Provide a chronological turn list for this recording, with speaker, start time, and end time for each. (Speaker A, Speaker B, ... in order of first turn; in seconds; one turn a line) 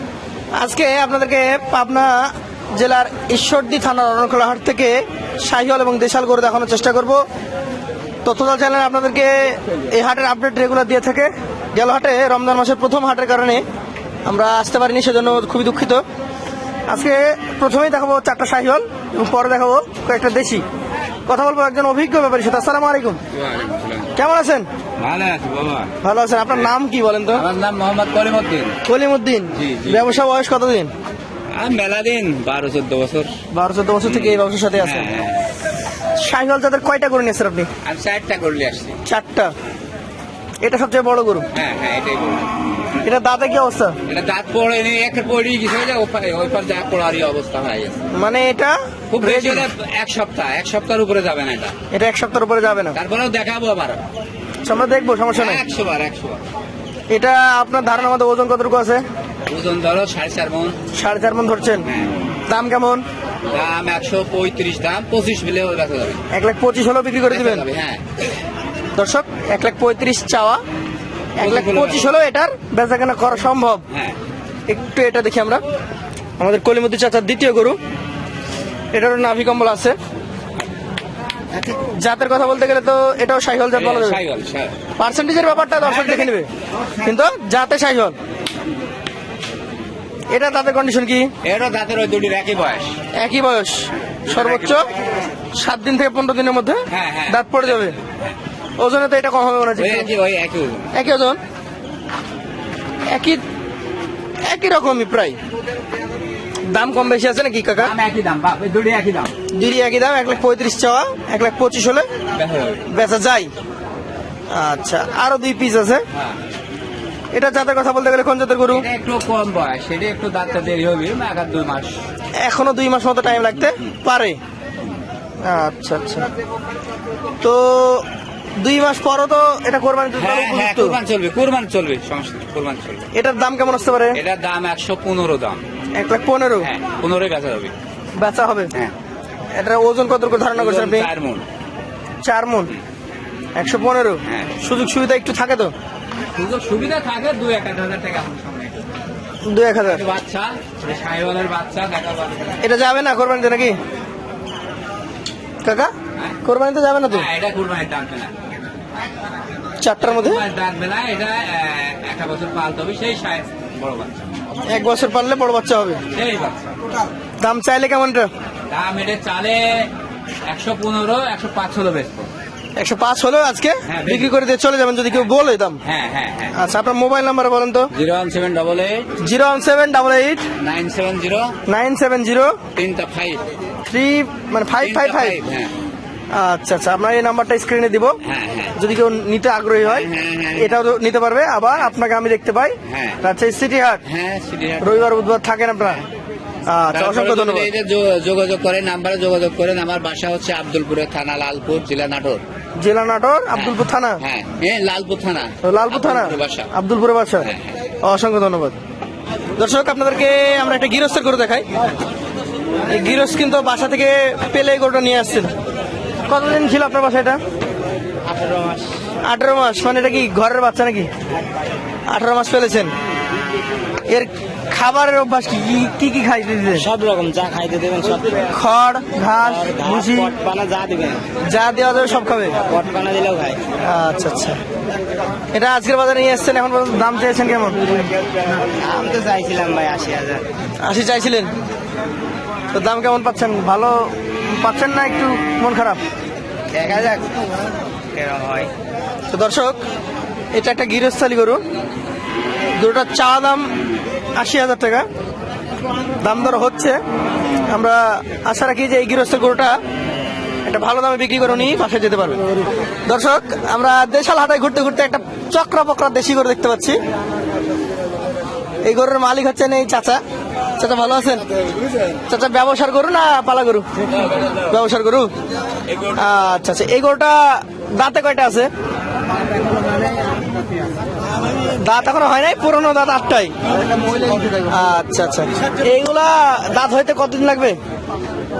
Speaker A: 0.5-7.2
Speaker A: 8.2-13.6
Speaker A: 14.2-16.0
Speaker A: 16.9-20.6
Speaker A: 21.3-23.2
Speaker B: 23.3-24.1
Speaker A: 24.1-24.6
Speaker B: 25.0-25.9
Speaker A: 26.0-27.4
Speaker B: 27.3-28.8
Speaker A: 28.8-30.9
Speaker B: 29.5-30.1
Speaker B: 31.5-33.4
Speaker A: 33.5-35.1
Speaker B: 34.0-35.5
Speaker A: 36.2-37.7
Speaker B: 37.8-39.0
Speaker A: 39.0-39.5
Speaker A: 40.6-41.4
Speaker B: 41.5-42.5
Speaker A: 43.0-44.0
Speaker B: 44.1-48.0
Speaker A: 48.1-49.7
Speaker B: 49.1-51.7
Speaker A: 51.9-53.0
Speaker B: 52.9-54.0
Speaker A: 54.6-55.6
Speaker B: 55.3-56.4
Speaker A: 57.1-59.0
Speaker B: 59.5-60.8
Speaker A: 60.9-61.9
Speaker B: 61.8-62.1
Speaker A: 62.5-63.0
Speaker B: 63.5-66.2
Speaker A: 66.3-67.6
Speaker B: 67.3-68.2
Speaker A: 69.0-70.6
Speaker A: 71.4-73.8
Speaker B: 71.4-72.1
Speaker A: 74.7-75.6
Speaker A: 76.4-77.8
Speaker A: 78.9-80.0
Speaker A: 81.6-84.2
Speaker B: 83.7-84.8
Speaker A: 85.0-86.5
Speaker A: 87.0-88.1
Speaker A: 90.3-91.3
Speaker B: 91.4-93.0
Speaker A: 93.2-94.8
Speaker B: 94.3-94.8
Speaker A: 95.5-98.0
Speaker B: 96.9-98.3
Speaker A: 98.8-100.1
Speaker B: 99.8-100.9
Speaker A: 100.9-101.4
Speaker A: 103.1-103.4
Speaker A: 104.4-105.4
Speaker A: 106.7-107.9
Speaker B: 107.8-109.3
Speaker A: 109.5-112.1
Speaker B: 112.3-112.8
Speaker A: 112.9-113.5
Speaker A: 114.5-116.0
Speaker A: 117.3-118.8
Speaker B: 118.7-122.0
Speaker A: 122.4-124.4
Speaker B: 123.6-123.9
Speaker A: 125.4-126.2
Speaker A: 127.4-128.1
Speaker A: 128.6-131.0
Speaker B: 130.2-133.1
Speaker A: 133.1-134.2
Speaker B: 134.1-135.6
Speaker A: 135.9-136.7
Speaker B: 136.6-137.7
Speaker A: 138.2-138.7
Speaker A: 139.5-141.1
Speaker B: 140.5-141.4
Speaker A: 142.2-142.7
Speaker A: 143.6-145.7
Speaker B: 144.2-144.5
Speaker B: 146.3-148.9
Speaker A: 149.4-150.0
Speaker B: 149.8-152.6
Speaker A: 152.6-153.8
Speaker A: 155.6-155.9
Speaker A: 156.4-157.3
Speaker B: 157.1-158.3
Speaker A: 159.8-160.4
Speaker B: 160.0-164.3
Speaker A: 164.7-166.0
Speaker B: 166.1-166.7
Speaker A: 167.4-168.3
Speaker B: 168.7-169.9
Speaker B: 170.4-172.3
Speaker A: 172.8-175.8
Speaker B: 173.8-174.3
Speaker B: 175.8-176.6
Speaker A: 176.5-177.9
Speaker B: 177.9-179.2
Speaker A: 179.2-180.4
Speaker B: 180.6-181.5
Speaker A: 181.7-182.6
Speaker B: 182.7-183.4
Speaker A: 183.8-185.4
Speaker B: 184.8-185.7
Speaker A: 186.3-188.2
Speaker B: 188.2-188.8
Speaker A: 188.8-194.0
Speaker B: 189.8-190.7
Speaker B: 192.8-193.2
Speaker B: 194.0-195.1
Speaker A: 194.8-196.0
Speaker A: 196.7-197.7
Speaker B: 196.9-202.4
Speaker A: 202.8-204.2
Speaker B: 203.5-206.7
Speaker A: 205.6-207.5
Speaker B: 207.4-207.7
Speaker A: 208.0-208.8
Speaker A: 209.6-211.7
Speaker A: 212.8-215.5
Speaker A: 216.2-217.4
Speaker C: 218.2-218.9
Speaker A: 219.2-221.1
Speaker A: 222.1-222.9
Speaker A: 224.1-226.9
Speaker C: 226.7-228.5
Speaker A: 228.5-230.3
Speaker C: 229.4-231.2
Speaker A: 231.4-232.6
Speaker C: 232.7-233.6
Speaker A: 233.8-234.6
Speaker A: 235.5-237.8
Speaker C: 238.6-240.4
Speaker A: 240.8-241.5
Speaker A: 242.7-246.0
Speaker C: 246.7-247.4
Speaker C: 248.1-248.7
Speaker A: 249.3-249.8
Speaker A: 250.5-251.6
Speaker A: 252.8-253.7
Speaker A: 254.3-255.1
Speaker A: 256.2-257.0
Speaker A: 257.7-259.8
Speaker A: 260.6-262.4
Speaker A: 263.1-267.0
Speaker A: 268.8-270.2
Speaker A: 270.8-271.4
Speaker A: 272.3-273.8
Speaker A: 274.6-275.3
Speaker A: 276.1-278.7
Speaker A: 281.8-283.5
Speaker A: 284.6-287.8